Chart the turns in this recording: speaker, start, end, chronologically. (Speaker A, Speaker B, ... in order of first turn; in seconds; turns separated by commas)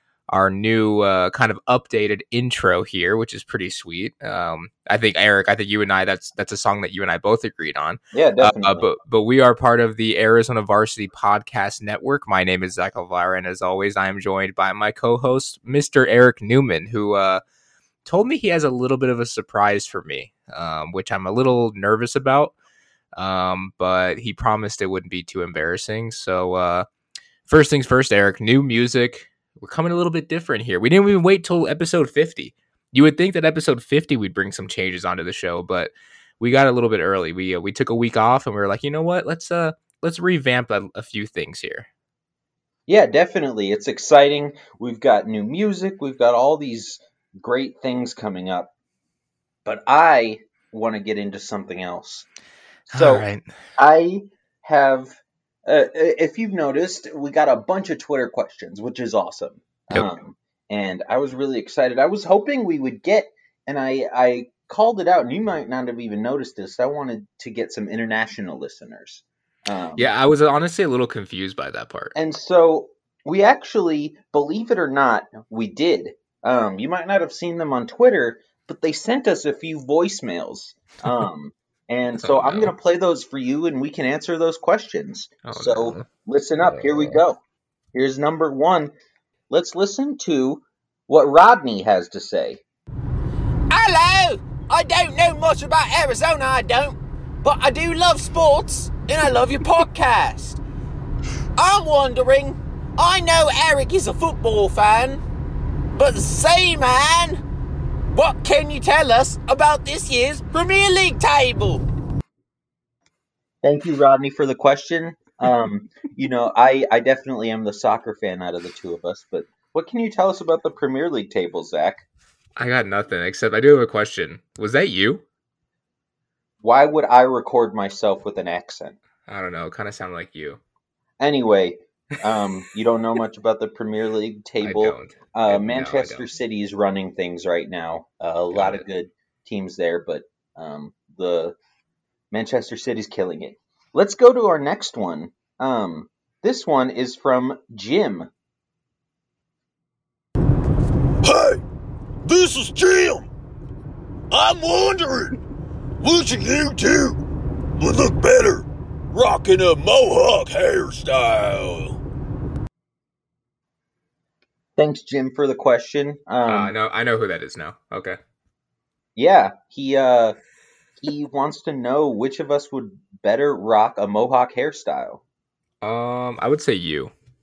Speaker A: 0.3-17.4, Speaker B: 8.1-8.8, Speaker A: 18.0-22.5, Speaker A: 23.1-26.9, Speaker A: 27.4-41.9, Speaker B: 42.9-48.7, Speaker B: 49.6-52.3, Speaker B: 52.9-53.2, Speaker A: 52.9-53.5, Speaker B: 53.8-55.1, Speaker B: 55.6-70.1, Speaker A: 70.0-72.1, Speaker B: 72.1-87.4, Speaker A: 82.2-82.7, Speaker A: 85.4-86.0, Speaker A: 86.6-87.2, Speaker B: 87.9-88.9, Speaker B: 89.5-92.6, Speaker C: 93.7-100.6, Speaker C: 101.6-105.2, Speaker C: 106.0-107.4, Speaker C: 108.1-111.8, Speaker B: 113.6-122.0, Speaker A: 122.5-125.2, Speaker B: 126.6-129.0, Speaker A: 129.3-130.6, Speaker B: 131.2-141.6, Speaker A: 134.6-136.3, Speaker A: 138.5-138.8, Speaker B: 142.3-148.3, Speaker D: 151.2-151.6, Speaker D: 152.2-153.2, Speaker D: 154.3-155.3, Speaker D: 156.0-157.2, Speaker D: 157.8-162.0, Speaker B: 164.8-166.7, Speaker A: 166.4-168.2, Speaker B: 169.2-170.3, Speaker B: 171.0-175.2, Speaker A: 175.8-177.1